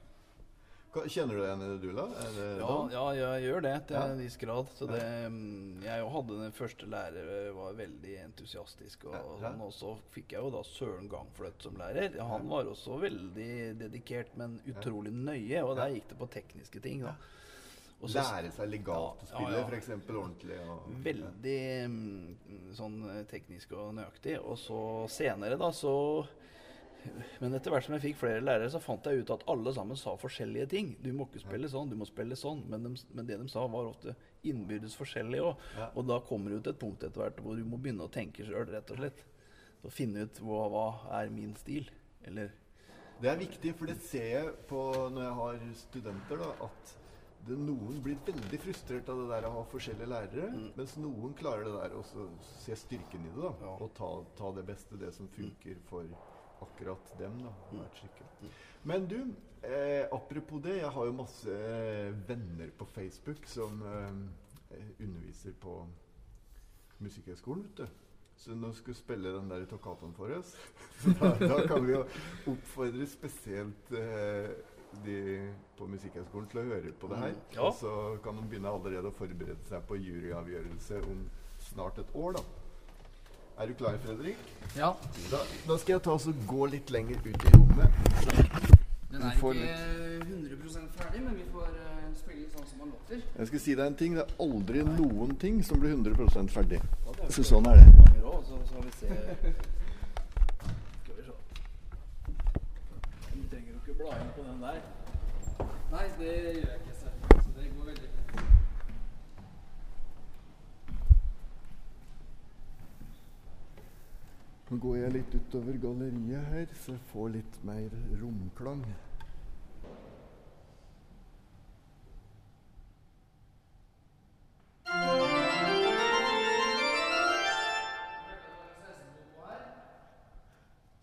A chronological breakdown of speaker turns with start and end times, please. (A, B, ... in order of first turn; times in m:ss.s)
0:00.9-0:02.9 A
0:02.5-0:18.3 B
0:09.1-0:09.6 A
0:18.0-0:21.3 A
0:18.9-0:19.8 B
0:20.8-0:26.3 B
0:27.0-0:39.3 B
0:39.8-0:42.6 B
0:43.2-1:06.0 A
1:07.0-1:22.5 A
1:17.1-1:17.8 B
1:23.5-1:28.3 A
1:24.7-1:25.1 C
1:29.1-1:33.3 C
1:29.1-1:29.7 A
1:33.3-1:38.0 A
1:37.0-1:39.7 B
1:41.0-1:41.6 B
1:43.3-1:44.9 B
1:45.9-1:48.5 C
1:54.7-1:59.0 A
2:08.2-2:09.7 C